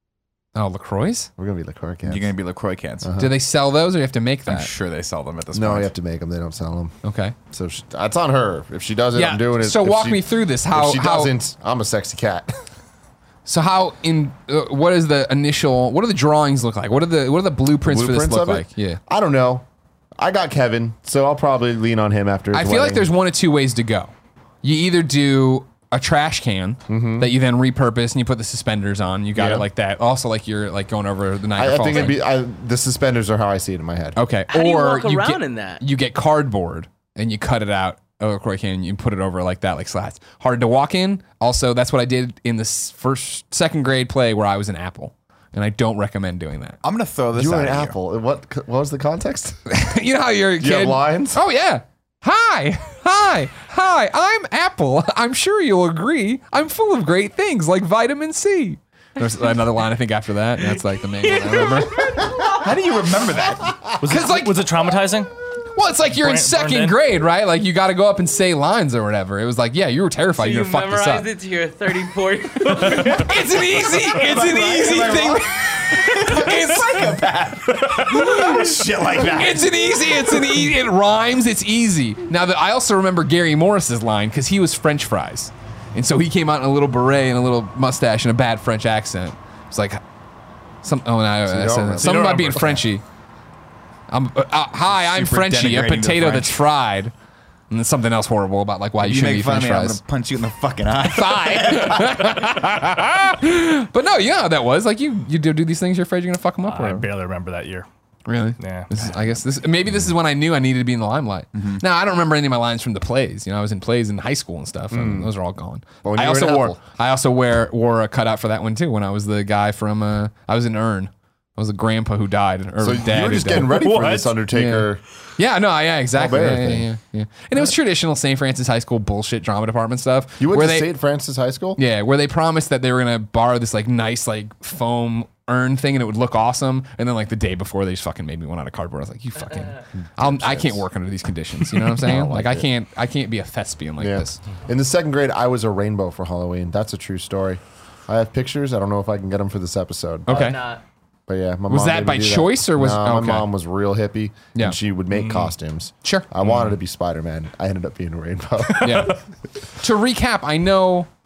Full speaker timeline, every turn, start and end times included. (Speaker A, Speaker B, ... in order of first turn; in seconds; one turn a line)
Speaker A: 0.5-1.3
Speaker B: 1.4-2.3
Speaker C: 2.0-3.1
Speaker B: 3.0-3.3
Speaker A: 3.2-4.7
Speaker C: 4.5-5.9
Speaker B: 5.5-6.9
Speaker A: 7.0-7.3
Speaker B: 7.5-12.6
Speaker A: 9.1-11.3
Speaker A: 13.4-19.0
Speaker B: 17.8-19.6
Speaker B: 20.2-23.1
Speaker A: 22.5-32.2
Speaker B: 26.9-27.3
Speaker B: 29.3-29.6
Speaker B: 31.6-34.2
Speaker A: 34.1-46.8
Speaker D: 34.5-35.8
Speaker C: 46.8-47.9
Speaker B: 47.3-49.6
Speaker A: 49.7-62.4
Speaker B: 50.6-51.4
Speaker D: 61.2-62.6
Speaker C: 62.4-63.9
Speaker E: 64.0-65.3
Speaker A: 64.0-64.6
Speaker A: 65.7-71.3
Speaker E: 66.1-67.0
Speaker D: 70.4-73.5
Speaker A: 72.8-77.1
Speaker C: 74.0-80.5
Speaker A: 78.0-90.0
Speaker A: 90.8-93.0
Speaker B: 91.5-92.7
Speaker E: 92.0-92.8
Speaker A: 94.1-97.1
Speaker C: 94.9-96.6
Speaker A: 97.7-100.0
Speaker C: 99.0-102.4
Speaker A: 101.1-107.1
Speaker E: 106.7-107.9
Speaker A: 108.3-123.9
Speaker E: 108.6-108.9
Speaker C: 111.5-111.8
Speaker B: 114.9-115.3
Speaker B: 116.0-116.8
Speaker B: 122.8-125.0
Speaker E: 123.6-124.3
Speaker A: 124.5-130.9
Speaker B: 126.1-126.9
Speaker B: 130.4-131.8
Speaker A: 131.8-144.4
Speaker B: 140.2-140.8
Speaker B: 141.7-142.7
Speaker B: 144.0-150.5
Speaker A: 150.3-150.6
Speaker D: 150.3-150.8
Speaker B: 151.3-159.2
Speaker A: 151.7-153.5
Speaker E: 155.1-155.5
Speaker A: 158.8-159.2
Speaker A: 159.8-161.1